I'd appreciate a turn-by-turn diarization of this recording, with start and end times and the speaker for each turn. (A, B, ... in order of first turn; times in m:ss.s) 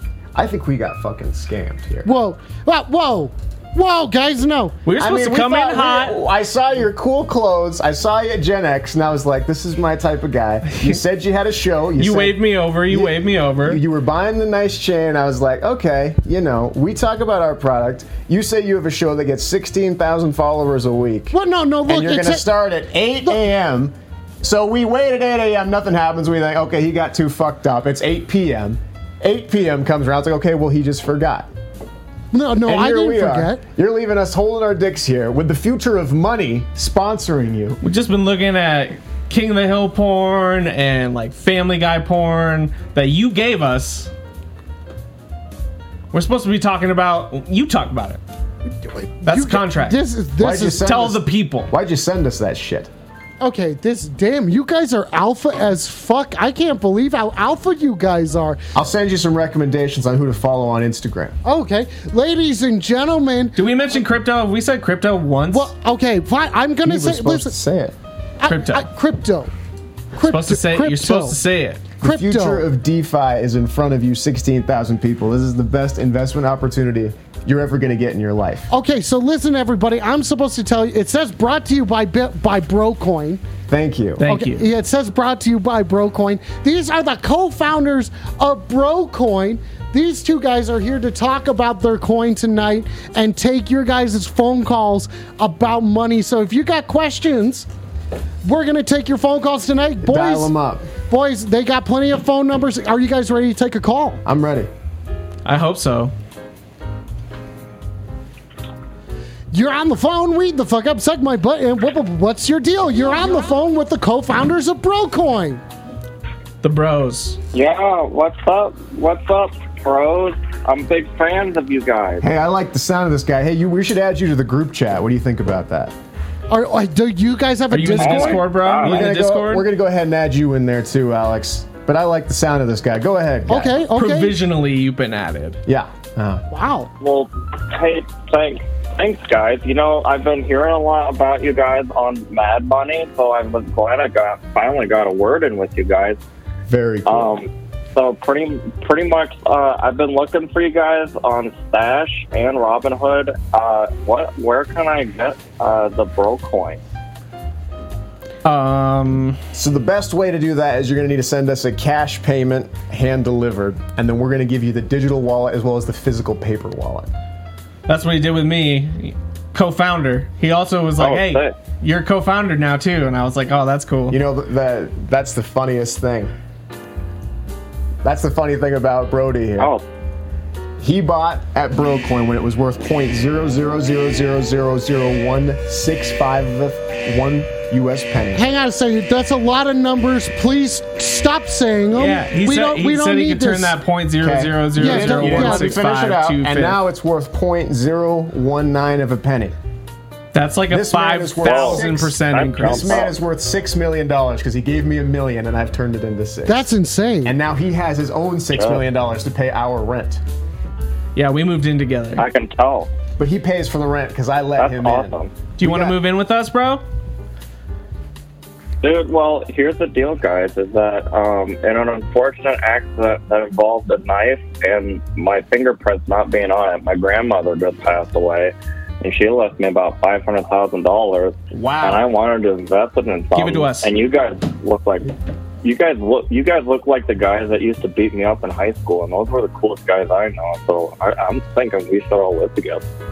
0:00.3-0:02.1 A
0:02.0-0:04.8 B
0:04.8-0:06.2 C
0:05.0-0:21.3 A
0:10.7-0:11.0 C
0:12.0-0:13.8 C
0:21.3-0:22.4 B
0:21.9-0:31.5 A
0:32.3-0:33.6 B
0:32.6-0:37.8 A
0:37.8-0:44.1 C
0:46.1-0:48.2 C
0:49.0-0:50.9 B
0:49.2-0:50.0 C
0:50.4-0:52.9 A
0:50.8-0:51.7 C
0:53.4-0:58.6 B
0:58.7-1:01.4 A
1:01.4-1:03.6 B
1:03.6-1:05.7 C
1:05.5-1:07.5 B
1:06.8-1:08.0 A
1:08.4-1:09.5 B
1:08.5-1:08.8 C
1:10.1-1:11.4 B
1:10.3-1:11.9 C
1:12.0-1:18.7 A
1:12.0-1:12.7 B
1:18.7-1:23.4 B
1:23.7-1:24.2 A
1:24.2-1:24.6 C
1:24.2-1:37.7 B
1:38.4-1:44.2 B
1:40.0-1:40.9 A
1:44.2-1:44.7 A
1:45.4-1:46.1 C
1:49.5-1:55.6 B
1:56.6-1:57.4 C
1:57.5-2:02.3 D
2:02.2-2:05.9 A
2:06.5-2:08.4 B
2:07.7-2:09.7 C
2:08.0-2:09.1 D
2:08.8-2:13.8 A
2:13.5-2:14.4 B
2:13.9-2:15.6 C
2:15.7-2:16.4 A
2:16.5-2:16.9 B
2:17.0-2:26.2 D
2:26.7-2:27.4 A
2:27.0-2:36.8 D
2:38.4-2:39.4 C
2:39.5-2:47.1 A
2:47.9-2:54.2 C
2:51.0-2:51.6 D
2:54.1-2:56.3 A
2:58.0-2:59.7 A
2:59.6-2:59.8 D
3:00.8-3:08.4 A
3:08.3-3:13.8 B
3:11.9-3:16.8 C
3:14.2-3:19.5 A
3:14.8-3:15.8 B
3:20.3-3:23.0 C
3:20.7-3:26.6 A
3:21.4-3:23.1 D
3:26.4-3:27.4 B
3:27.2-3:30.2 A
3:28.5-3:28.8 D
3:31.1-3:32.2 C
3:32.2-3:32.9 D
3:33.2-3:36.0 A
3:34.6-3:35.3 D
3:35.6-3:36.8 C
3:38.8-3:55.1 D
3:51.5-3:52.1 A
3:53.3-3:53.9 C
3:55.6-4:02.8 D